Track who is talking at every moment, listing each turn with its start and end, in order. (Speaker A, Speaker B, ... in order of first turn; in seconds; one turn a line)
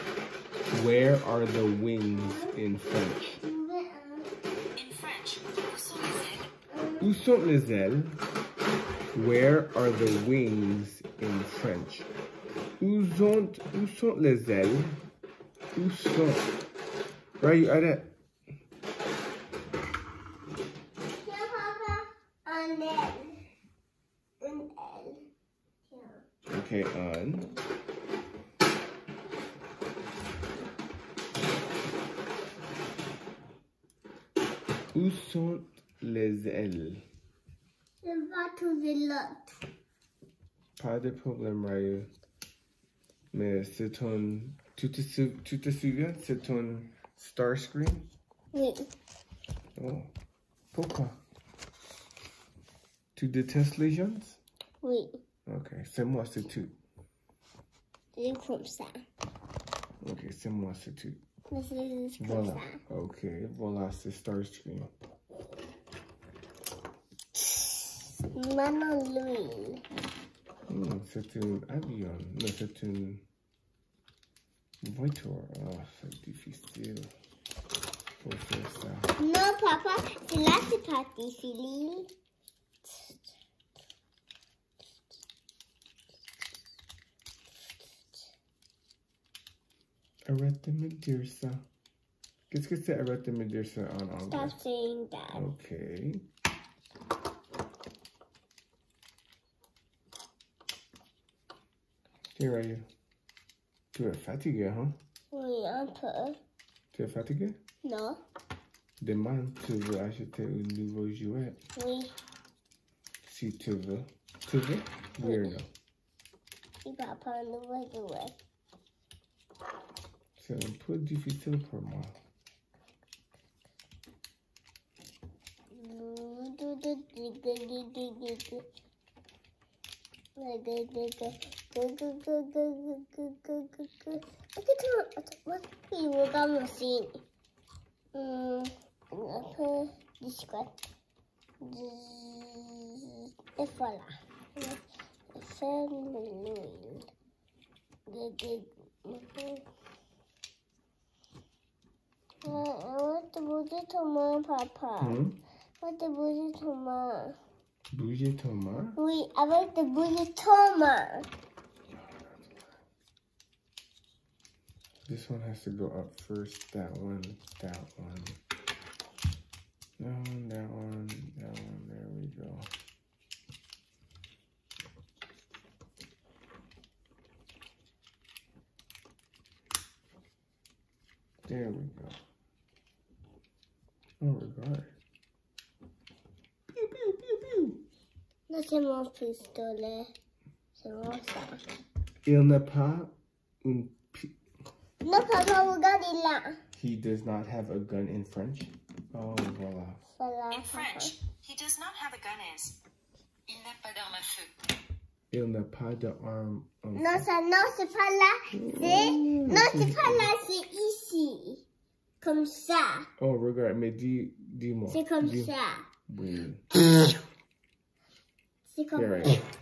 Speaker A: 0.7-3.4
Speaker B: 2.1-2.6
Speaker B: 3.4-4.3
Speaker C: 4.8-6.5
Speaker B: 6.7-7.1
Speaker A: 7.0-8.2
Speaker A: 9.1-12.1
Speaker A: 12.8-15.0
Speaker A: 15.8-16.5
Speaker A: 17.4-18.1
Speaker B: 21.1-23.4
Speaker B: 24.4-25.2
Speaker B: 25.9-26.2
Speaker A: 26.5-27.5
Speaker A: 34.9-37.0
Speaker B: 38.0-39.5
Speaker A: 40.8-42.1
Speaker A: 43.3-48.1
Speaker B: 48.5-48.9
Speaker A: 49.8-50.1
Speaker A: 50.7-51.2
Speaker A: 53.1-54.4
Speaker B: 54.8-55.2
Speaker A: 55.5-56.7
Speaker B: 58.2-59.0
Speaker A: 60.0-61.2
Speaker B: 61.5-62.8
Speaker A: 62.2-64.9
Speaker B: 68.2-69.8
Speaker A: 70.7-73.2
Speaker A: 74.8-77.1
Speaker A: 78.2-79.1
Speaker B: 79.2-82.1
Speaker B: 82.8-83.1
Speaker A: 90.3-91.7
Speaker A: 92.5-94.6
Speaker B: 94.3-95.5
Speaker A: 95.3-96.2
Speaker A: 102.3-102.9
Speaker A: 103.9-105.0
Speaker B: 105.3-106.4
Speaker A: 106.9-107.6
Speaker B: 107.8-108.2
Speaker A: 109.0-111.6
Speaker B: 111.8-112.1
Speaker A: 113.2-115.7
Speaker B: 115.2-115.6
Speaker B: 116.8-118.4
Speaker A: 120.4-122.2
Speaker B: 125.7-128.7
Speaker B: 130.4-137.2
Speaker B: 138.1-140.9
Speaker B: 141.6-144.8
Speaker B: 145.3-147.1
Speaker B: 148.1-149.6
Speaker B: 152.4-155.2
Speaker A: 155.0-155.4
Speaker B: 155.8-157.4
Speaker A: 157.9-159.0
Speaker B: 159.0-161.3
Speaker A: 161.9-162.5
Speaker A: 165.1-168.4
Speaker A: 170.0-172.7
Speaker A: 181.4-182.2
Speaker A: 184.2-184.9
Speaker A: 186.8-187.8
Speaker B: 188.5-190.1
Speaker B: 190.8-191.6
Speaker A: 192.2-194.3
Speaker B: 195.0-196.6
Speaker A: 196.7-200.0
Speaker B: 200.2-201.2
Speaker C: 200.5-202.8
Speaker C: 203.5-204.5
Speaker A: 205.3-207.3
Speaker B: 206.9-211.6
Speaker A: 208.5-210.3
Speaker B: 212.2-213.1
Speaker A: 213.2-215.5
Speaker B: 214.9-215.9
Speaker A: 216.1-216.6
Speaker B: 218.7-219.4
Speaker A: 218.9-219.4